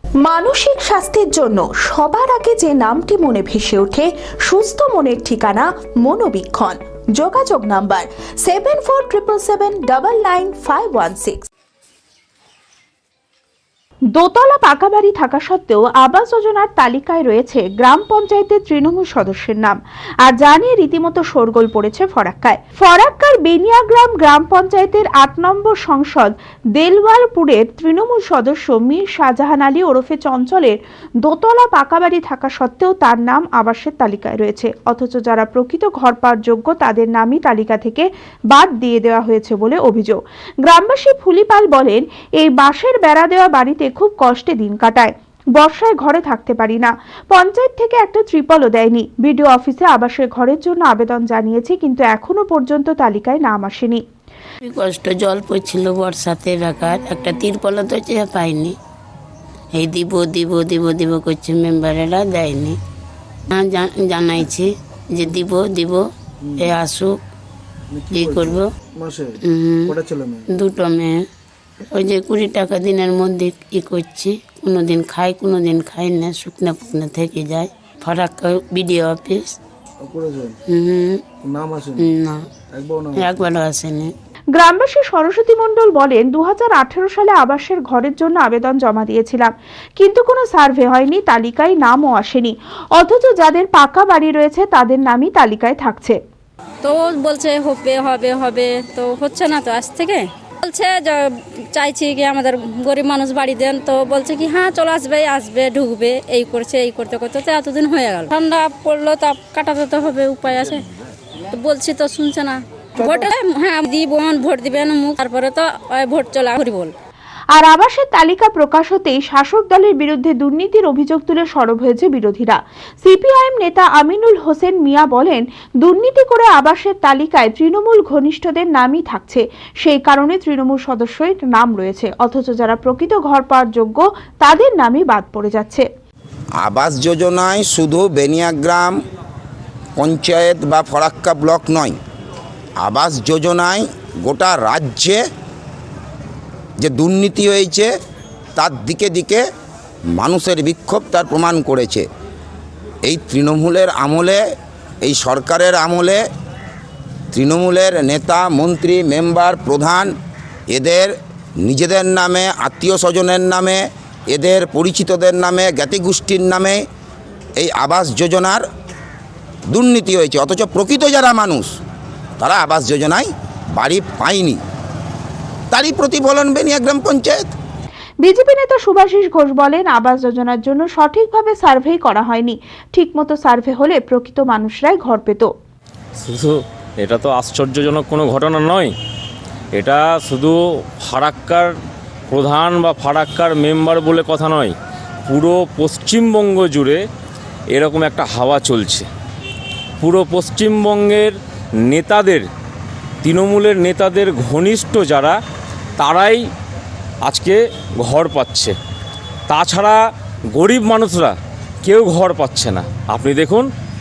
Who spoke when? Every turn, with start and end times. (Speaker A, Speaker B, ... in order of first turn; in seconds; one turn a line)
Speaker A: 0.2-11.4
Speaker A: 14.1-54.0
Speaker B: 54.6-58.7
Speaker B: 59.7-62.8
Speaker B: 63.5-66.0
Speaker C: 66.4-66.8
Speaker B: 66.6-67.2
Speaker C: 67.9-70.5
Speaker B: 68.1-68.7
Speaker B: 69.4-69.9
Speaker B: 70.5-71.2
Speaker B: 71.9-79.5
Speaker C: 80.0-80.5
Speaker B: 80.7-81.2
Speaker C: 81.4-82.1
Speaker B: 82.0-82.4
Speaker C: 82.7-83.3
Speaker B: 83.2-84.1
Speaker A: 84.5-96.2
Speaker D: 96.8-101.2
Speaker D: 101.7-110.8
Speaker D: 111.5-116.9
Speaker A: 117.5-135.9
Speaker E: 136.6-139.0
Speaker E: 140.0-142.0
Speaker E: 142.8-145.2
Speaker E: 146.8-147.9
Speaker E: 148.6-149.4
Speaker E: 150.2-152.1
Speaker E: 153.1-154.4
Speaker E: 155.0-156.2
Speaker E: 157.3-160.1
Speaker E: 160.7-166.8
Speaker E: 167.6-168.6
Speaker E: 169.7-171.8
Speaker E: 172.4-174.6
Speaker E: 175.7-177.5
Speaker A: 178.2-185.5
Speaker F: 186.2-188.9
Speaker F: 189.8-191.7
Speaker F: 192.3-194.7
Speaker F: 195.3-197.0
Speaker F: 197.7-199.1
Speaker F: 200.0-201.3
Speaker F: 201.8-202.4
Speaker F: 203.2-205.4
Speaker F: 206.0-206.5
Speaker F: 207.2-208.8
Speaker F: 209.5-210.0
Speaker F: 210.5-213.7